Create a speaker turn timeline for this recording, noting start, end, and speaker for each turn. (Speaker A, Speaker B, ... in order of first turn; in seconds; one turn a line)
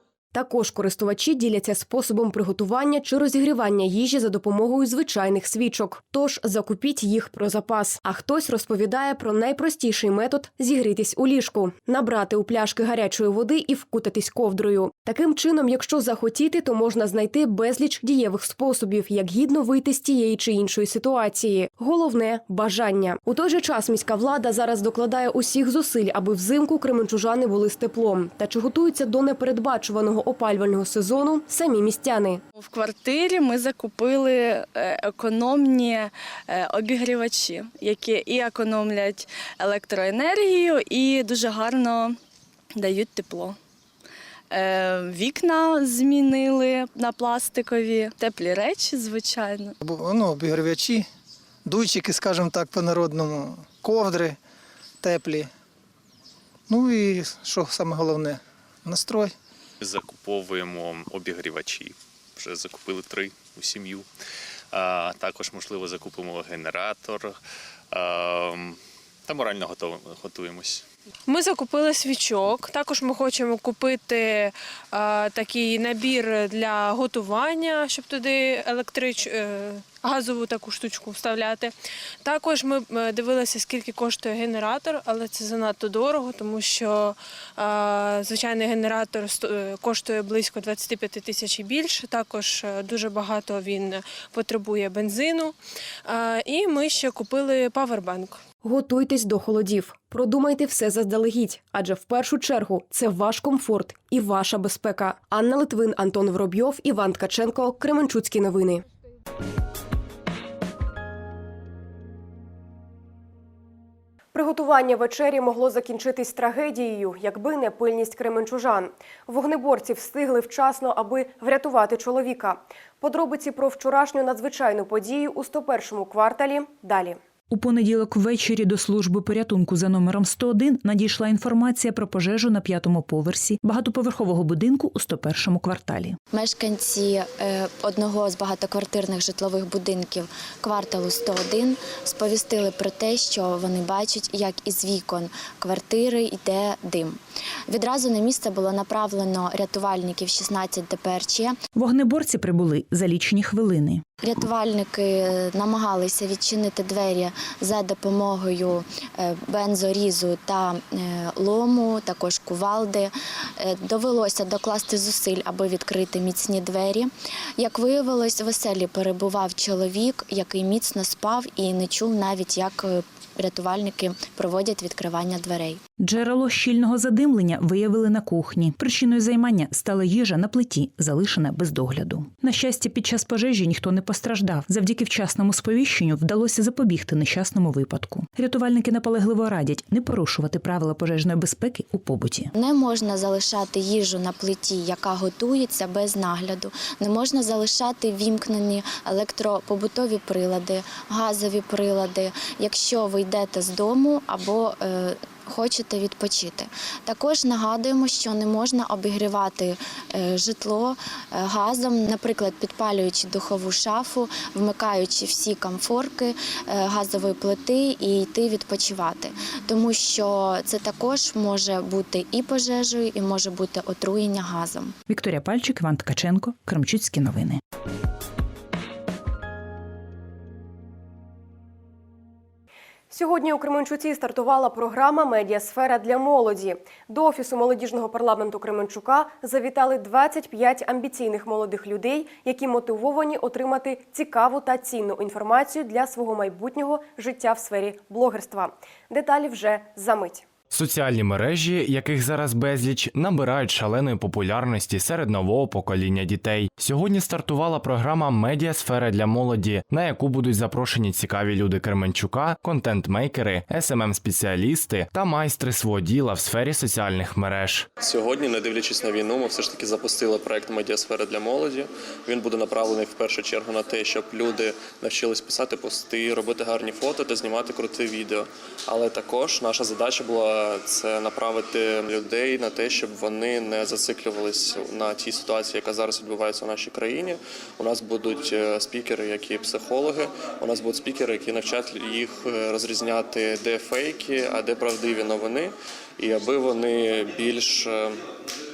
Speaker A: 0.3-32.4
Speaker B: 32.6-42.2
Speaker B: 42.8-43.6
Speaker B: 44.5-49.7
Speaker C: 49.9-51.0
Speaker C: 51.7-54.4
Speaker C: 55.0-55.5
Speaker C: 56.7-59.3
Speaker D: 59.8-64.1
Speaker D: 64.7-67.4
Speaker D: 67.9-70.8
Speaker E: 71.3-95.5
Speaker E: 96.1-98.4
Speaker A: 98.6-108.8
Speaker A: 114.3-127.2
Speaker F: 127.5-136.2
Speaker G: 136.3-151.6
Speaker F: 151.8-154.0
Speaker G: 154.2-175.8
Speaker F: 176.0-192.5
Speaker G: 192.5-224.9
Speaker F: 225.1-227.6
Speaker A: 233.1-250.5
Speaker H: 250.7-267.9
Speaker I: 268.0-298.2